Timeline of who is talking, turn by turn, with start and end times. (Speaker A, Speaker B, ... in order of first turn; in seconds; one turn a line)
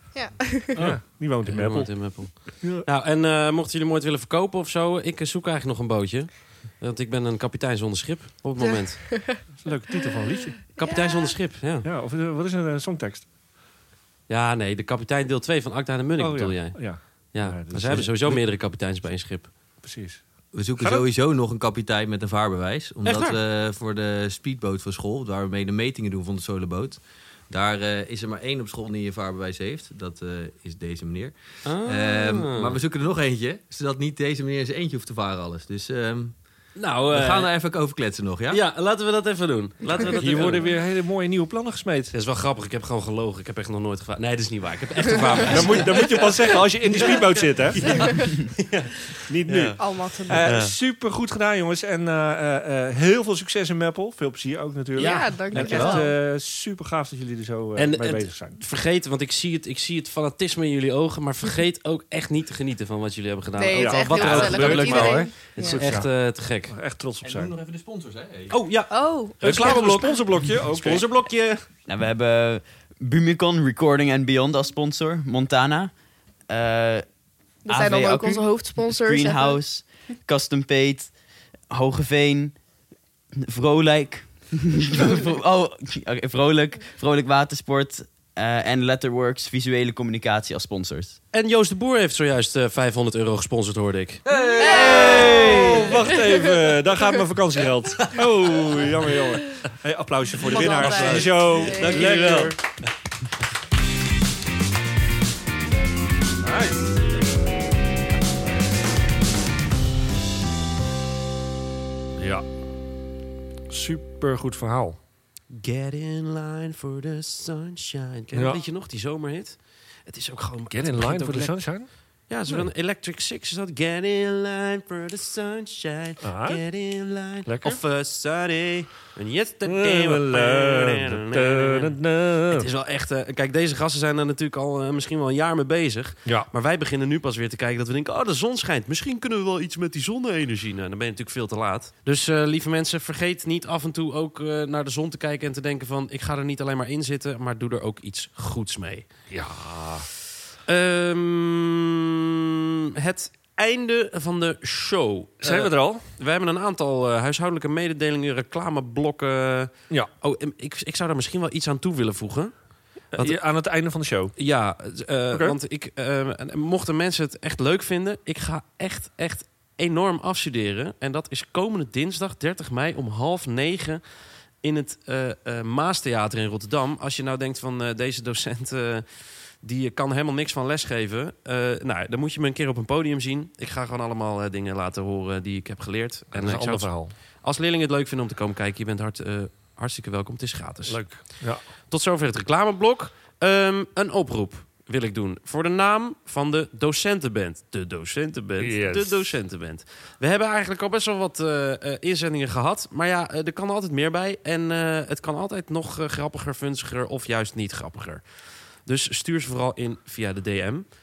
Speaker A: 0.1-0.8
Speaker B: 0.8-9.2
Speaker C: 0.8-2.9
Speaker A: 8.6-9.4
Speaker C: 9.6-10.6
Speaker A: 10.6-11.3
Speaker B: 10.8-11.9
Speaker C: 11.8-13.3
Speaker B: 14.3-19.5
Speaker C: 16.2-18.5
Speaker C: 19.8-21.1
Speaker D: 20.5-36.4
Speaker B: 23.1-23.4
Speaker B: 31.6-32.8
Speaker B: 36.8-37.5
Speaker D: 37.1-38.6
Speaker B: 38.5-40.8
Speaker C: 40.0-42.1
Speaker B: 42.1-50.7
Speaker C: 45.4-48.3
Speaker A: 47.9-48.3
Speaker C: 49.3-58.6
Speaker A: 49.8-50.5
Speaker B: 55.0-56.1
Speaker A: 55.0-56.1
Speaker B: 57.8-66.8
Speaker A: 63.6-65.8
Speaker C: 63.8-67.5
Speaker D: 67.2-68.6
Speaker B: 68.5-71.7
Speaker A: 68.9-70.2
Speaker C: 69.4-71.1
Speaker E: 71.9-75.9
Speaker E: 76.5-77.1
Speaker A: 77.7-79.6
Speaker E: 77.7-81.1
Speaker E: 81.7-82.6
Speaker E: 83.4-91.2
Speaker B: 91.3-95.1
Speaker D: 94.3-95.5
Speaker A: 94.6-96.7
Speaker C: 94.7-102.6
Speaker E: 94.8-95.8
Speaker A: 100.4-102.3
Speaker B: 100.5-102.6
Speaker B: 106.4-106.9
Speaker C: 112.2-112.5
Speaker C: 113.7-115.0
Speaker B: 115.5-121.6
Speaker C: 118.3-118.6
Speaker C: 120.7-122.7
Speaker B: 122.3-132.0
Speaker C: 126.2-126.6
Speaker C: 127.4-127.8
Speaker C: 129.7-132.7
Speaker B: 132.5-149.1
Speaker C: 149.3-150.1
Speaker B: 150.7-152.2
Speaker B: 153.0-162.6
Speaker C: 155.4-156.1
Speaker B: 163.1-163.4
Speaker C: 163.1-164.3
Speaker B: 164.4-174.0
Speaker B: 174.6-210.9
Speaker C: 186.3-187.1
Speaker C: 190.9-191.7
Speaker C: 198.6-199.3